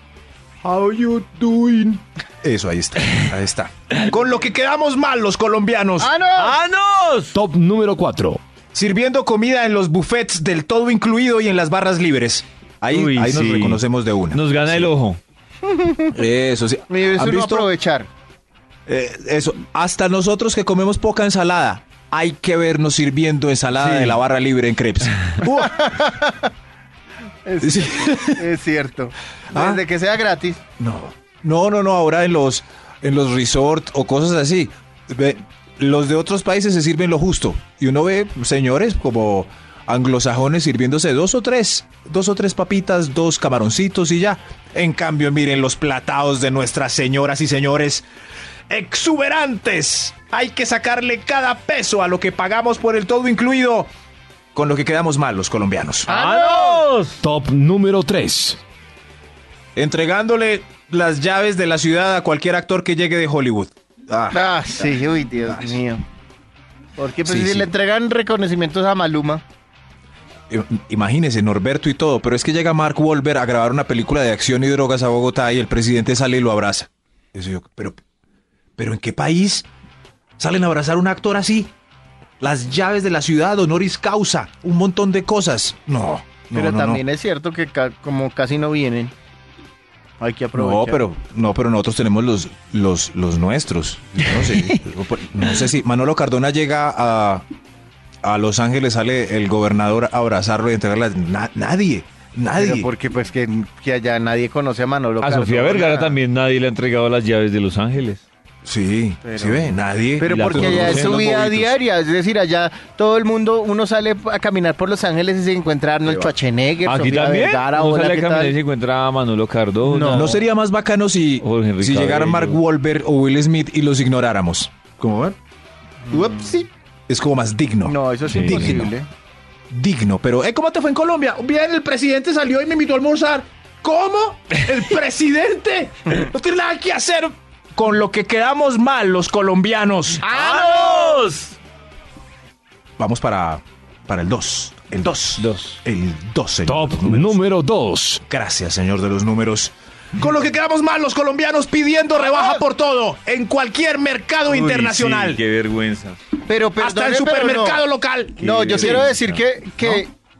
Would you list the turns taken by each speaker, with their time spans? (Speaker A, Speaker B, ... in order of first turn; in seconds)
Speaker A: 0.6-6.1, 8.7-14.9, 16.1-17.7, 18.9-26.1, 27.6-28.5, 29.5-29.8, 30.8-48.0, 48.7-53.9, 54.5-56.1, 59.8-65.8, 67.2-67.7, 70.5-78.0, 78.8-79.7, 80.4-81.7, 82.4-87.0, 90.5-97.4, 98.2-102.9, 108.6-111.8, 116.0-116.3, 120.1-125.4, 126.1-128.9, 129.7-140.2, 143.0-147.4, 148.3-155.4, 156.8-160.0
Speaker B: 6.0-6.6, 15.7-16.1, 16.9-18.1, 25.6-26.5, 27.4-30.6, 56.1-56.9, 64.3-66.0, 67.0-69.4, 86.5-89.1, 90.2-91.0, 102.5-106.2, 109.2-118.6, 119.8-120.4, 126.1-126.6, 127.8-129.1, 140.3-141.2, 152.2-152.6, 156.4-157.8, 158.4-160.1
Speaker C: 6.4-7.4, 12.9-15.2, 23.7-24.2, 56.1-57.2, 105.2-108.2, 110.2-111.2, 116.8-120.4, 121.4-122.6, 128.3-128.7, 140.2-141.5, 145.4-145.8, 154.5-156.2, 158.6-159.2
Speaker D: 7.3-8.4, 57.2-58.6, 146.7-148.2